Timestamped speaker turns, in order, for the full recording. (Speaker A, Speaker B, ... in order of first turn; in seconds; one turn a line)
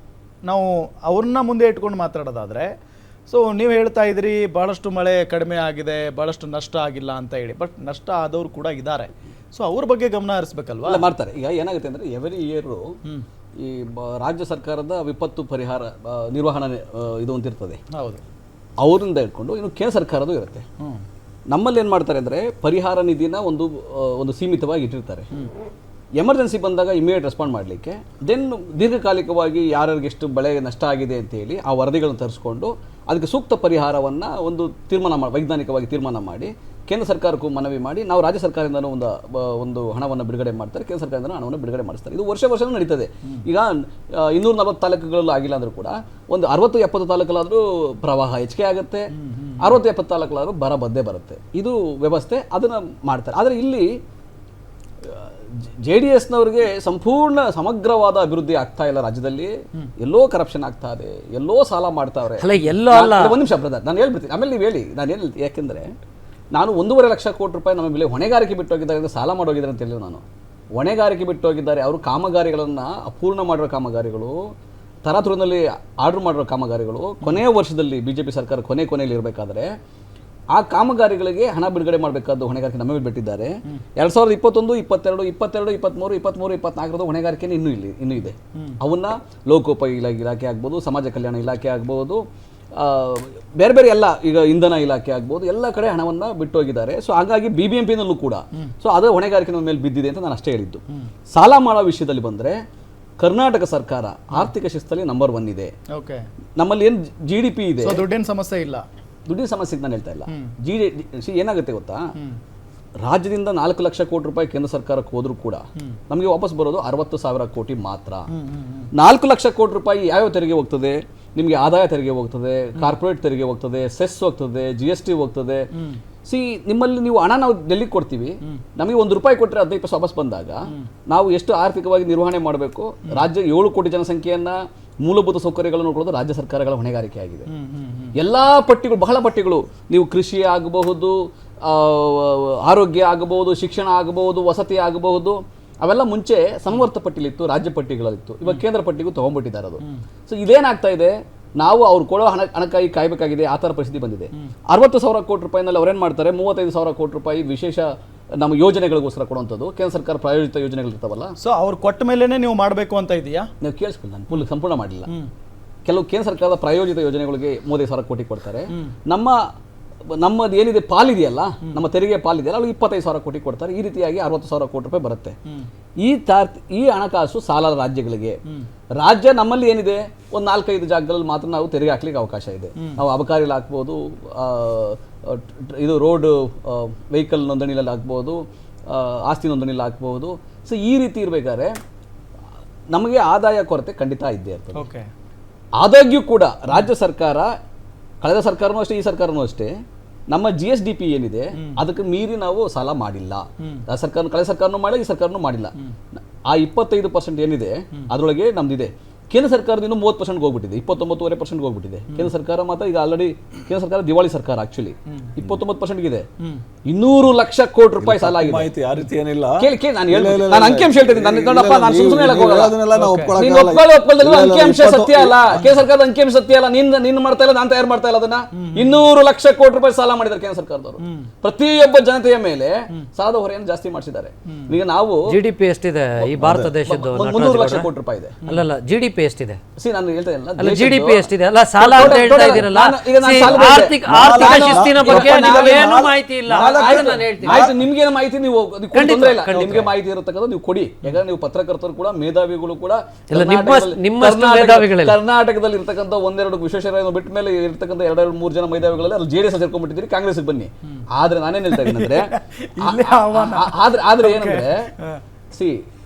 Speaker A: 0.4-2.7
Speaker A: 3.3-11.0
Speaker B: 10.8-12.8
Speaker B: 13.6-17.8
Speaker A: 17.9-18.2
Speaker B: 18.8-20.6
Speaker B: 21.5-25.3
Speaker B: 26.2-54.0
Speaker A: 49.1-49.7
Speaker B: 55.0-65.9
Speaker C: 62.4-63.4
Speaker B: 66.5-70.2
Speaker B: 70.8-74.4
Speaker B: 75.0-79.7
Speaker B: 80.5-92.2
Speaker B: 92.7-102.6
Speaker B: 103.2-105.7
Speaker A: 105.9-106.2
Speaker B: 106.6-108.0
Speaker A: 107.8-108.8
Speaker B: 109.3-112.0
Speaker B: 113.0-118.2
Speaker A: 118.3-118.9
Speaker B: 119.0-125.7
Speaker B: 126.3-137.5
Speaker A: 137.5-138.1
Speaker B: 138.2-157.9
Speaker B: 158.4-161.3
Speaker A: 161.4-163.5
Speaker B: 163.6-165.1
Speaker B: 165.8-169.3
Speaker B: 170.2-175.3
Speaker B: 176.0-178.4
Speaker B: 179.0-191.7
Speaker B: 192.9-194.8
Speaker A: 194.7-195.1
Speaker B: 195.8-197.5
Speaker B: 198.2-199.7
Speaker B: 200.3-205.7
Speaker B: 206.5-216.2
Speaker B: 216.9-218.7
Speaker D: 218.0-225.8
Speaker B: 219.6-222.8
Speaker A: 222.9-223.4
Speaker B: 223.3-235.2
Speaker A: 228.6-229.0
Speaker A: 231.0-231.3
Speaker A: 234.5-234.8
Speaker C: 235.3-237.9
Speaker B: 236.2-238.4
Speaker D: 236.3-236.8
Speaker C: 238.4-239.6
Speaker B: 239.8-241.3
Speaker C: 240.6-247.7
Speaker B: 241.8-264.9
Speaker D: 242.1-242.7
Speaker D: 243.4-247.8
Speaker C: 248.9-249.9
Speaker C: 253.3-255.2
Speaker A: 261.7-265.2
Speaker B: 265.5-265.8